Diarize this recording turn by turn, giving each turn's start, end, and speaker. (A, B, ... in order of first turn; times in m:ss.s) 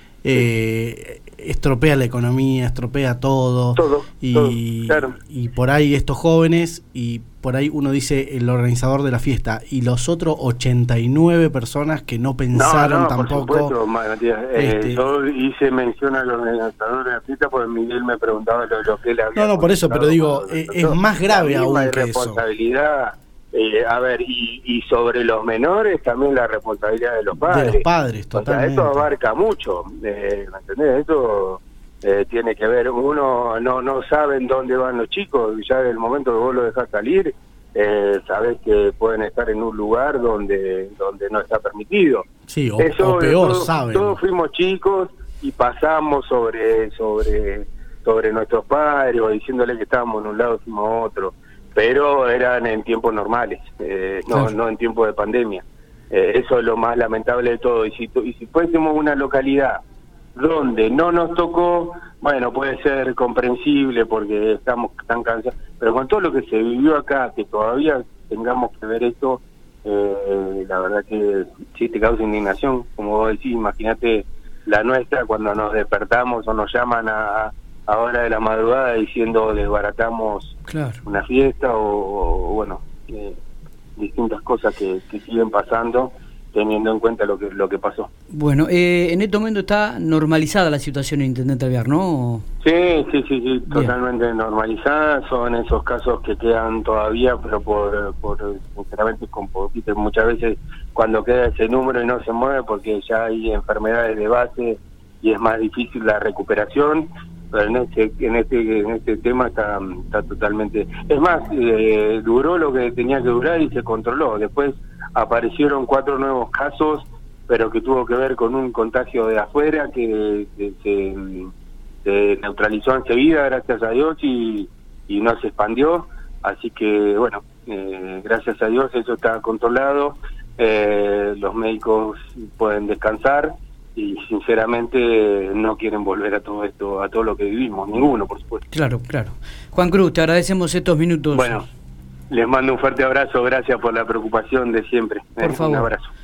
0:00.2-0:13.8 A
0:03.8-0:05.2 B
0:12.5-0:42.3 B
0:14.6-0:15.0 A
0:19.4-0:22.4 A
0:27.3-0:29.1 A
0:42.5-0:44.2 A
0:42.8-0:59.8 B
1:00.4-1:23.4 B
1:20.7-1:21.0 C
1:24.0-1:28.1 B
1:28.3-1:32.4 C
1:32.6-2:01.5 B
2:02.0-2:18.6 B
2:18.7-2:21.7 C
2:21.3-2:21.6 B
2:22.3-2:26.1 B
2:25.4-2:25.9 C